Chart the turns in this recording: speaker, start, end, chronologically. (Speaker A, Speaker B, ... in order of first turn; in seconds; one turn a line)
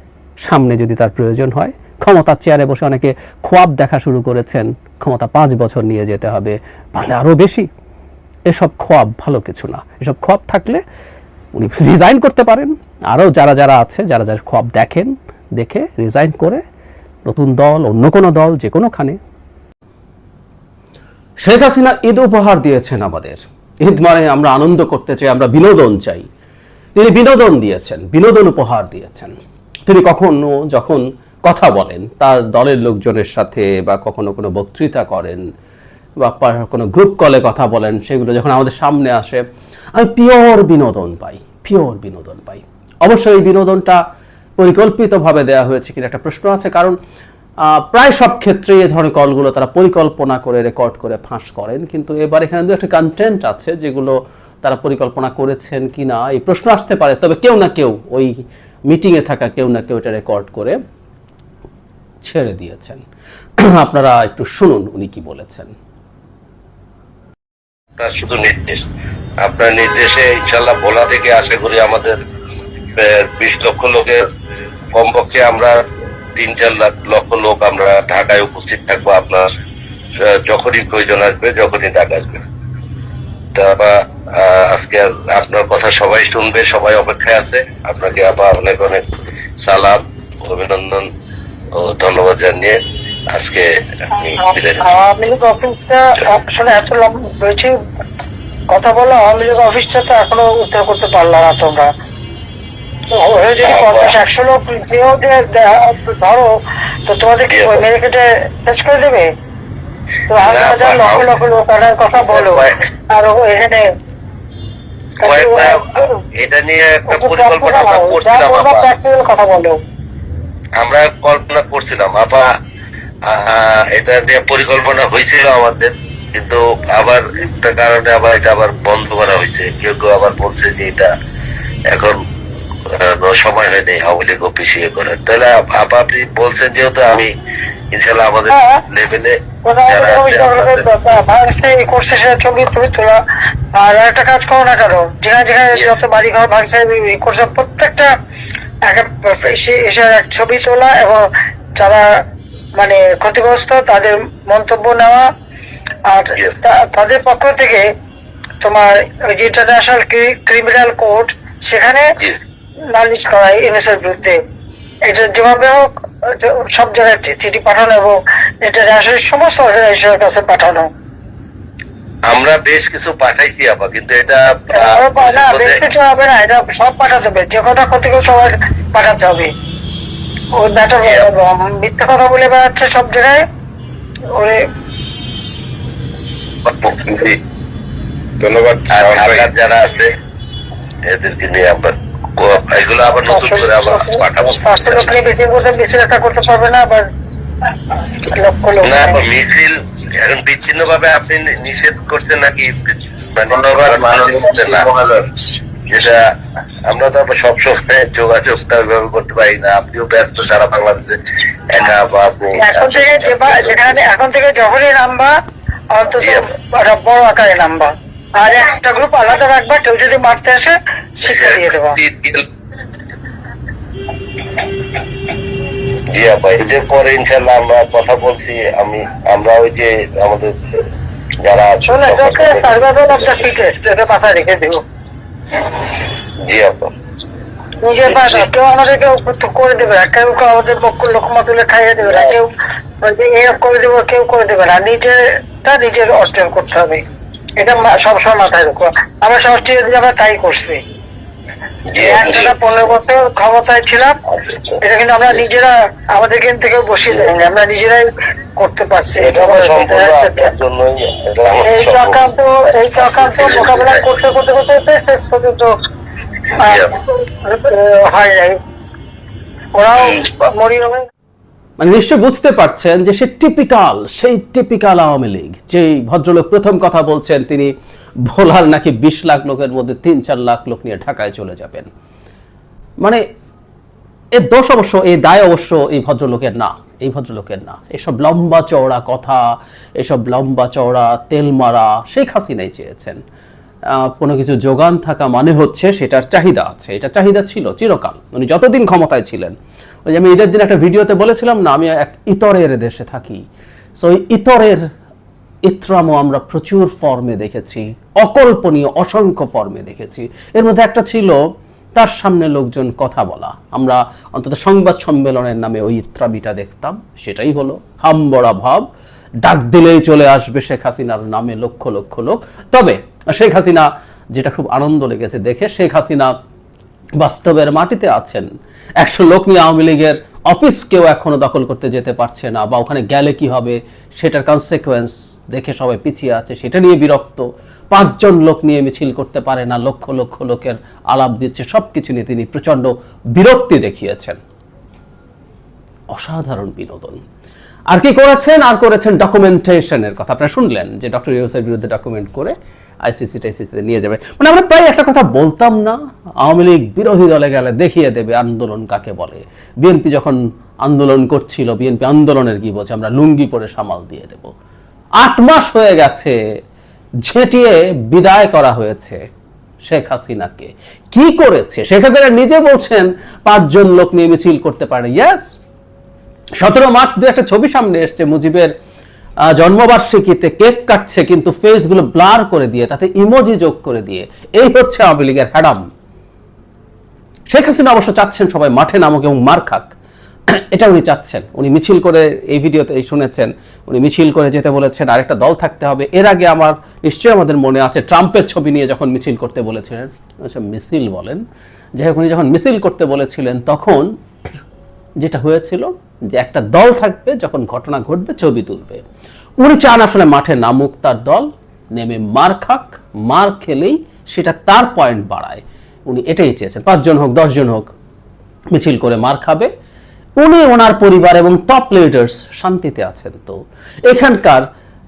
Speaker A: 0.4-7.7
Speaker A: 8.5-10.8
Speaker A: 11.6-16.6
Speaker A: 17.3-19.2
Speaker A: 21.4-26.3
Speaker A: 26.9-29.3
Speaker A: 29.9-35.4
Speaker A: 36.2-39.4
Speaker A: 40.0-44.0
Speaker A: 44.6-47.0
Speaker A: 47.6-58.4
Speaker A: 58.9-60.8
Speaker A: 62.2-63.0
Speaker A: 63.6-65.7
Speaker B: 68.0-68.8
Speaker B: 69.4-72.2
Speaker B: 73.0-74.2
Speaker B: 74.9-75.8
Speaker B: 76.4-79.5
Speaker B: 80.2-82.4
Speaker B: 83.5-89.0
Speaker B: 89.6-91.1
Speaker B: 91.8-92.8
Speaker B: 93.3-94.9
Speaker C: 94.4-97.8
Speaker C: 98.7-101.9
Speaker C: 103.1-106.5
Speaker B: 103.6-104.2
Speaker C: 107.1-109.3
Speaker B: 107.5-107.8
Speaker C: 110.3-113.9
Speaker B: 110.4-111.4
Speaker B: 112.2-112.8
Speaker C: 115.2-116.2
Speaker B: 115.2-118.9
Speaker C: 117.1-119.8
Speaker B: 120.8-122.5
Speaker B: 123.2-131.1
Speaker B: 131.9-132.2
Speaker B: 132.9-137.3
Speaker B: 137.9-139.3
Speaker C: 138.5-138.8
Speaker C: 139.7-143.2
Speaker B: 139.9-140.9
Speaker C: 143.8-148.1
Speaker C: 148.8-151.3
Speaker C: 151.8-152.1
Speaker C: 152.8-155.3
Speaker C: 156.1-157.8
Speaker C: 158.6-162.2
Speaker C: 162.9-164.4
Speaker C: 165.1-170.9
Speaker B: 172.3-175.8
Speaker C: 174.7-179.5
Speaker C: 180.6-183.4
Speaker C: 184.3-184.6
Speaker D: 186.8-187.4
Speaker D: 188.4-189.5
Speaker B: 188.9-190.1
Speaker B: 191.1-195.2
Speaker C: 193.1-197.1
Speaker C: 198.3-199.3
Speaker B: 198.8-204.9
Speaker D: 203.5-205.2
Speaker B: 205.9-206.2
Speaker B: 206.9-214.0
Speaker C: 212.6-215.3
Speaker C: 215.9-222.0
Speaker B: 221.2-222.4
Speaker B: 226.1-230.5
Speaker B: 231.4-233.5
Speaker C: 231.8-234.8
Speaker B: 236.4-236.9
Speaker C: 237.8-247.0
Speaker B: 238.1-238.5
Speaker B: 242.0-242.3
Speaker C: 247.6-250.8
Speaker B: 251.9-252.8
Speaker C: 252.0-254.2
Speaker B: 254.3-254.8
Speaker C: 254.8-260.5
Speaker B: 259.1-262.2
Speaker C: 261.6-265.7
Speaker B: 263.0-264.1
Speaker C: 266.6-268.6
Speaker B: 266.6-267.0
Speaker C: 269.8-271.1
Speaker B: 270.0-270.2
Speaker A: 271.8-277.7
Speaker A: 278.3-281.9
Speaker A: 284.4-289.4
Speaker A: 290.0-293.2
Speaker A: 293.9-299.6
Speaker A: 300.1-303.4
Speaker A: 304.0-304.8
Speaker A: 305.7-311.4
Speaker A: 312.0-318.9
Speaker A: 319.4-326.4
Speaker A: 327.2-344.4
Speaker A: 346.1-347.2
Speaker A: 347.9-352.5
Speaker A: 353.1-364.5
Speaker A: 365.2-366.4
Speaker A: 367.3-369.2
Speaker A: 369.9-375.6
Speaker A: 376.6-378.7
Speaker A: 379.5-385.9
Speaker A: 387.5-389.9
Speaker A: 390.5-401.4
Speaker A: 402.0-404.1
Speaker A: 405.2-409.0
Speaker A: 409.6-417.9
Speaker A: 418.7-419.7
Speaker A: 420.4-424.6